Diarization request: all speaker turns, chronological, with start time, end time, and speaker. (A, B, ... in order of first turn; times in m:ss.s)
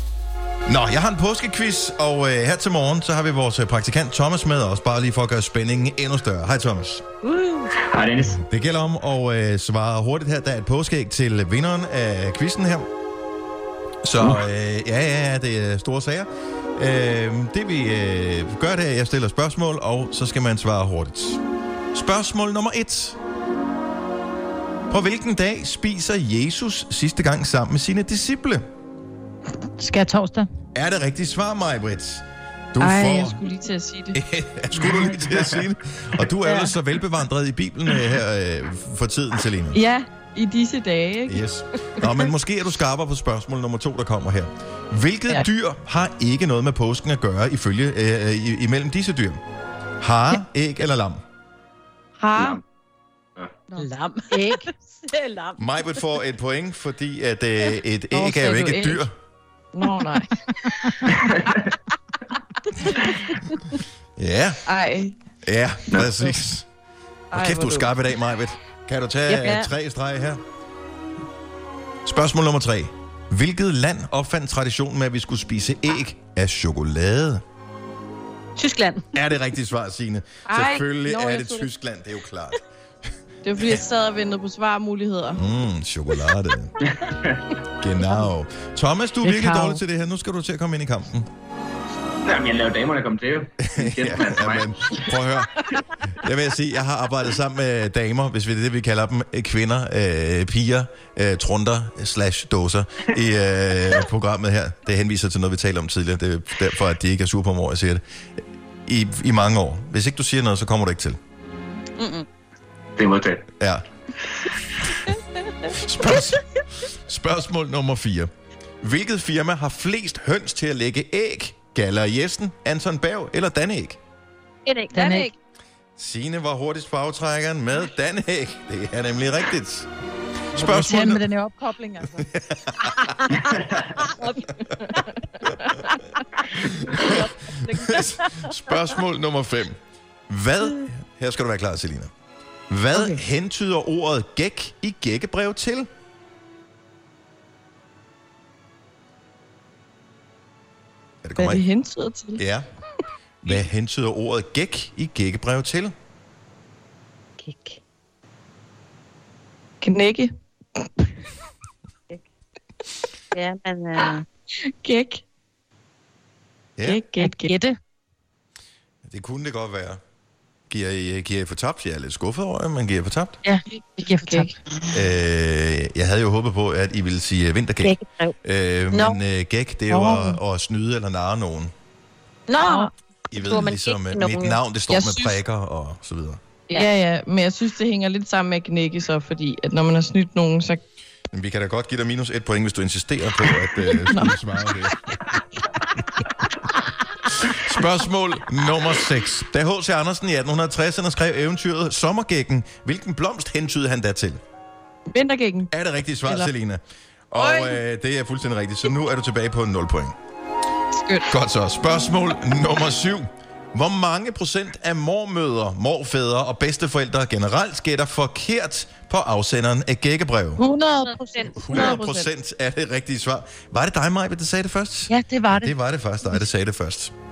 0:00.7-0:07.0 A
0:07.2-0:07.7 B
0:07.7-0:08.4 C
0:08.4-0:12.9 A
0:14.0-0:21.4 A
0:21.9-0:23.2 A
0:24.9-0:28.6 A
0:29.8-0:30.4 D
0:30.7-0:33.4 A
0:32.8-0:34.2 D
0:34.1-0:39.8 A
0:34.9-0:35.6 C
0:36.4-0:36.7 D
0:39.7-0:41.4 D
0:41.3-0:49.4 A
0:42.0-0:42.2 D
0:50.0-0:51.2 A
0:52.2-0:52.6 D
0:52.4-0:52.6 C
0:53.7-0:54.7 D
0:53.8-0:55.6 B
0:55.6-0:59.1 A
0:58.1-0:59.0 D
0:59.7-1:01.7 D
1:01.1-1:01.7 C
1:02.7-1:03.7 D
1:04.2-1:04.6 A
1:04.6-1:05.2 D
1:05.4-1:06.6 A
1:05.9-1:06.2 C
1:07.3-1:07.9 D
1:07.3-1:10.4 A
1:09.3-1:09.7 B
1:12.0-1:17.4 A
1:18.6-1:19.0 B
1:19.1-1:22.6 A
1:20.5-1:21.6 D
1:23.4-1:25.4 D
1:25.4-1:26.7 A
1:26.9-1:27.5 C
1:27.8-1:31.2 A
1:28.0-1:28.3 D
1:29.2-1:29.8 D
1:32.2-1:35.2 C
1:33.6-1:48.0 A
1:48.8-1:51.2 A
1:52.0-1:52.2 B
1:53.0-1:53.4 C
1:55.6-1:58.3 A
1:58.8-2:04.0 A
2:04.6-2:05.3 B
2:04.9-2:05.3 D
2:06.0-2:09.9 A
2:10.5-2:11.3 A
2:10.6-2:12.3 D
2:12.1-2:13.0 A
2:12.9-2:15.1 B
2:13.4-2:14.0 C
2:14.9-2:16.0 D
2:16.4-2:18.5 B
2:16.5-2:22.1 A
2:22.7-2:25.9 A
2:31.2-2:31.6 A
2:31.4-2:32.4 D
2:32.4-2:32.6 A
2:33.4-2:35.9 A
2:37.4-2:37.8 B
2:39.8-2:40.8 D
2:43.3-2:44.2 B
2:44.8-2:45.2 D
2:46.8-2:47.0 A
2:46.8-2:47.7 D
2:49.0-2:50.0 A
2:50.7-2:53.4 A
2:53.7-2:54.6 D
2:54.9-3:01.7 A
2:57.8-2:58.3 B
2:58.9-2:59.2 B
2:59.9-3:00.4 D
3:02.5-3:04.6 B
3:02.6-3:02.9 D
3:03.3-3:06.4 A
3:04.9-3:05.4 D
3:06.7-3:10.8 D
3:11.3-3:15.2 A
3:14.1-3:14.3 D
3:15.3-3:15.7 D
3:17.4-3:24.4 A
3:25.1-3:25.7 D
3:25.7-3:30.1 A
3:26.2-3:26.5 D
3:27.4-3:27.8 D
3:31.0-3:31.3 D
3:31.3-3:40.6 A
3:40.6-3:42.3 D
3:41.0-3:42.0 B
3:41.6-3:47.1 A
3:45.1-3:45.6 D